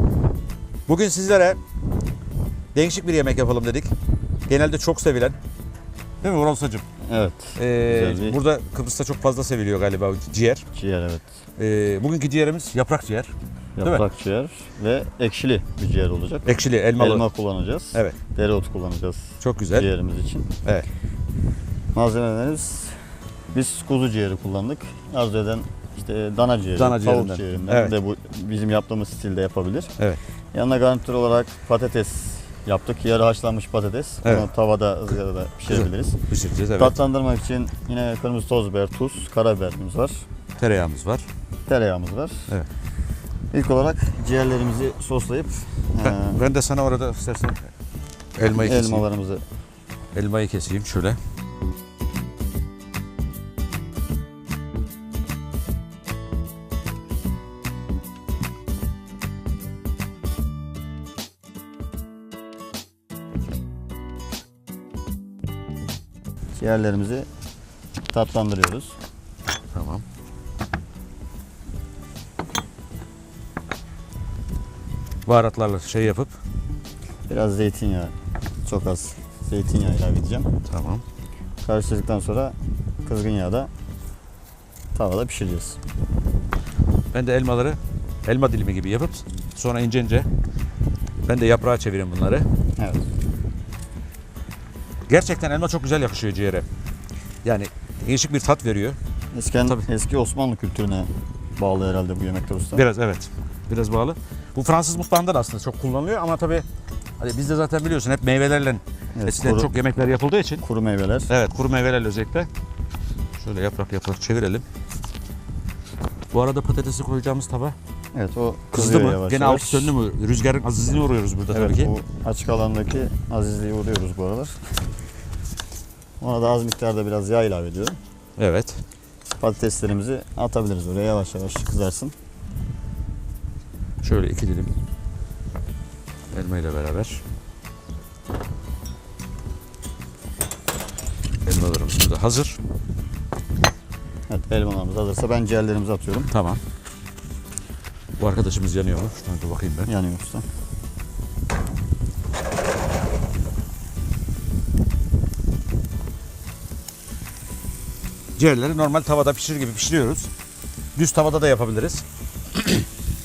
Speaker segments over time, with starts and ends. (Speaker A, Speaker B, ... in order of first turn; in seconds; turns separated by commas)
Speaker A: 0.9-1.6, Speaker A: 2.7-3.9, Speaker A: 4.5-5.4, Speaker A: 6.2-6.8, Speaker B: 7.1-8.4, Speaker A: 7.6-10.7, Speaker B: 10.7-11.2, Speaker A: 11.6-14.0, Speaker B: 13.8-20.5, Speaker A: 16.4-17.2, Speaker A: 17.9-18.2, Speaker A: 19.4-19.9, Speaker B: 21.9-22.9, Speaker B: 23.5-29.9, Speaker A: 26.8-27.9, Speaker B: 30.5-36.2, Speaker A: 34.2-34.5, Speaker A: 35.7-37.0, Speaker B: 36.8-40.2, Speaker A: 40.6-41.3, Speaker B: 41.7-42.5, Speaker B: 43.5-46.4, Speaker A: 46.0-47.6, Speaker A: 48.4-49.0, Speaker B: 48.6-49.4, Speaker A: 50.1-51.2, Speaker B: 66.5-67.3, Speaker B: 68.1-68.9, Speaker A: 69.7-70.0, Speaker A: 75.2-76.3, Speaker B: 77.3-78.1, Speaker B: 78.6-80.5, Speaker A: 80.7-81.0, Speaker B: 81.6-83.7, Speaker B: 84.9-85.8, Speaker A: 87.1-90.3, Speaker A: 91.2-92.5, Speaker B: 92.8-93.0, Speaker A: 95.1-96.7, Speaker A: 97.4-99.0, Speaker B: 99.3-102.8, Speaker A: 102.7-106.7, Speaker A: 107.2-110.6, Speaker B: 109.2-109.7, Speaker B: 110.6-111.3, Speaker A: 111.3-112.5, Speaker A: 113.4-114.6, Speaker A: 116.3-117.8, Speaker B: 118.1-119.9, Speaker A: 118.7-121.9, Speaker B: 121.5-124.6, Speaker B: 126.2-128.0, Speaker A: 128.4-128.8, Speaker B: 129.4-132.1, Speaker A: 134.0-134.7, Speaker A: 136.3-137.2, Speaker A: 141.4-142.6, Speaker B: 144.3-146.3, Speaker A: 146.3-146.6, Speaker A: 148.2-149.9, Speaker B: 149.9-150.4, Speaker A: 158.4-160.3, Speaker A: 160.9-162.8